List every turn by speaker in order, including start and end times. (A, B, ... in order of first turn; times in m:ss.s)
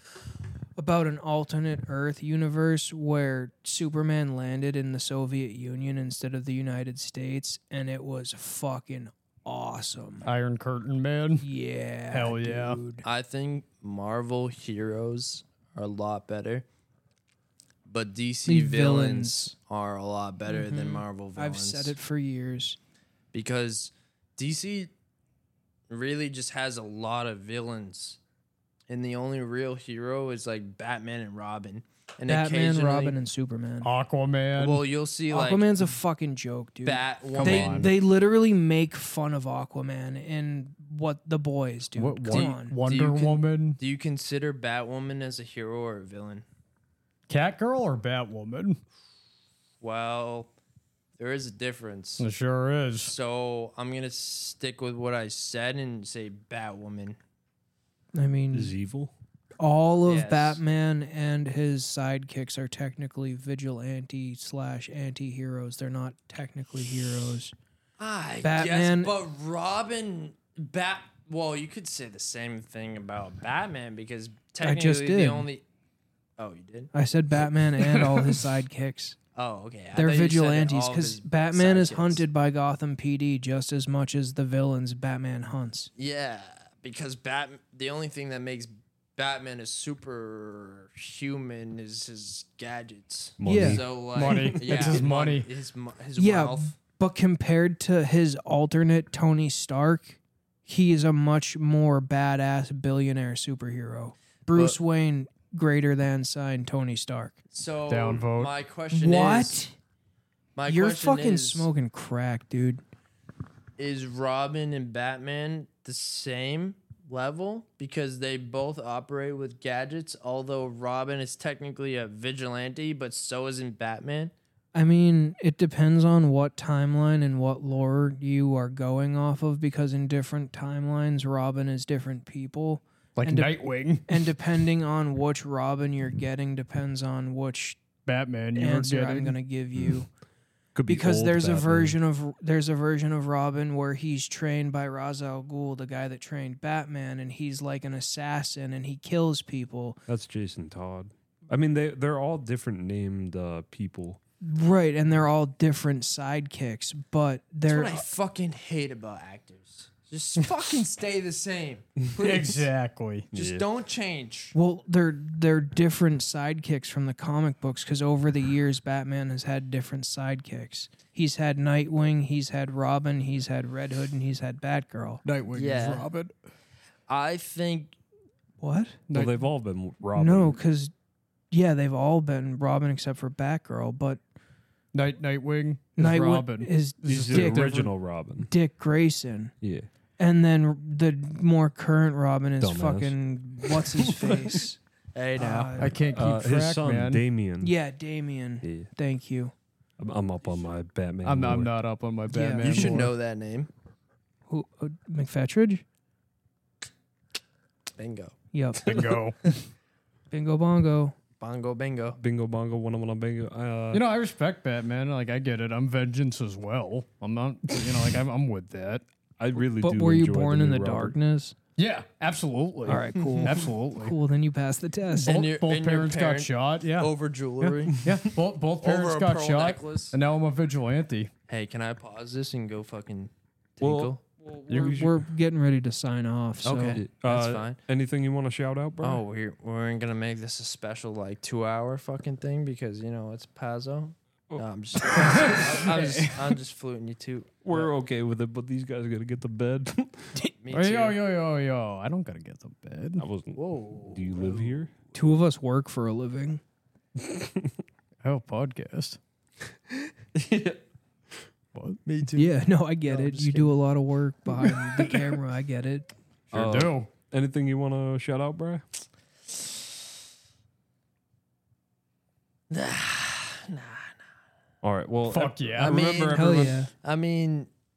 0:00.8-0:10.3 A
0:10.2-0:11.4 B
0:11.4-0:13.0 A
0:12.1-0:12.8 B
0:13.0-0:16.7 C
0:17.9-0:22.0 C
0:18.5-0:19.5 A
0:20.5-0:22.8 A
0:23.3-0:24.9 C
0:25.9-0:28.2 C
0:28.9-0:33.2 C
0:32.3-0:33.9 A
0:33.8-0:34.8 B
0:34.6-0:35.8 C
0:35.3-0:42.8 A
0:36.8-0:37.9 C
0:37.3-0:37.9 B
0:42.0-0:43.8 B
0:42.3-0:46.4 C
0:47.3-0:48.8 B
0:49.8-0:50.5 C
0:51.2-0:52.2 C
0:52.2-0:53.2 B
0:53.0-0:57.2 C
0:58.1-0:58.7 A
0:58.5-0:59.1 D
0:59.6-1:07.6 A
1:00.1-1:00.6 C
1:08.0-1:15.6 C
1:08.4-1:09.2 A
1:14.6-1:15.5 A
1:16.4-1:16.9 C
1:16.9-1:19.2 A
1:17.8-1:18.3 B
1:19.4-1:22.2 C
1:20.0-1:25.9 A
1:26.0-1:36.8 C
1:33.4-1:35.0 D
1:33.4-1:33.8 A
1:34.1-1:35.5 B
1:36.2-1:47.4 A
1:44.5-1:44.8 C
1:47.5-1:49.6 C
1:47.9-1:48.5 B
1:48.9-1:49.8 A
1:50.6-1:51.7 C
1:50.7-1:52.8 A
1:53.8-2:04.3 C
2:04.7-2:17.8 A
2:13.2-2:14.2 B
2:18.1-2:19.4 B
2:18.6-2:20.1 A
2:20.8-2:22.0 D
2:20.9-2:30.0 A
2:30.1-2:34.2 D
2:34.4-2:38.0 A
2:37.7-2:42.7 C
2:42.2-2:43.3 B
2:43.3-2:43.6 D
2:43.3-2:44.6 C
2:44.5-2:55.2 A
2:55.2-2:56.3 B
2:55.5-2:56.1 C
2:57.1-2:58.0 C
2:58.6-2:59.0 A
2:59.1-2:59.4 B
2:59.1-3:00.6 D
3:00.2-3:00.9 A
3:01.5-3:04.2 A
3:04.9-3:07.9 B
3:06.0-3:09.5 A
3:07.1-3:08.5 D
3:09.6-3:09.9 D
3:10.2-3:14.8 A
3:12.6-3:14.6 D
3:15.2-3:15.7 C
3:15.4-3:16.0 A
3:15.8-3:17.2 B
3:16.1-3:17.7 D
3:17.6-3:19.5 A
3:18.6-3:18.9 D
3:20.0-3:21.7 D
3:21.2-3:23.1 B
3:22.3-3:23.0 A
3:22.6-3:23.7 C
3:24.5-3:25.8 A
3:28.0-3:28.4 C
3:28.5-3:29.1 A
3:28.8-3:29.5 B
3:30.3-3:31.2 A
3:31.4-3:32.2 C
3:32.2-3:34.0 D
3:33.9-3:39.0 B
3:39.4-3:41.2 D
3:39.8-3:41.6 A
3:41.8-3:44.2 B
3:42.8-3:45.4 A
3:45.2-3:51.3 B
3:45.2-3:48.0 C
3:48.8-3:50.2 C
3:51.5-3:54.2 C
3:53.8-3:55.2 D
3:54.7-3:55.1 B
3:54.8-3:57.0 A
3:56.6-3:57.8 C
3:56.8-3:59.2 D
3:59.0-4:07.9 C
4:05.1-4:06.4 B
4:07.6-4:10.4 D
4:10.6-4:11.2 C
4:10.7-4:13.2 B
4:13.2-4:14.9 D
4:13.6-4:14.8 C
4:15.1-4:16.6 A
4:17.2-4:17.7 D
4:18.2-4:19.2 B
4:20.4-4:20.8 D
4:21.7-4:22.0 B
4:22.0-4:23.8 C
4:22.4-4:26.1 A
4:26.5-4:27.1 B
4:26.5-4:28.9 D
4:32.7-4:34.2 C
4:34.8-4:36.8 D
4:35.3-4:36.0 B
4:35.8-4:37.7 C
4:36.3-4:36.9 A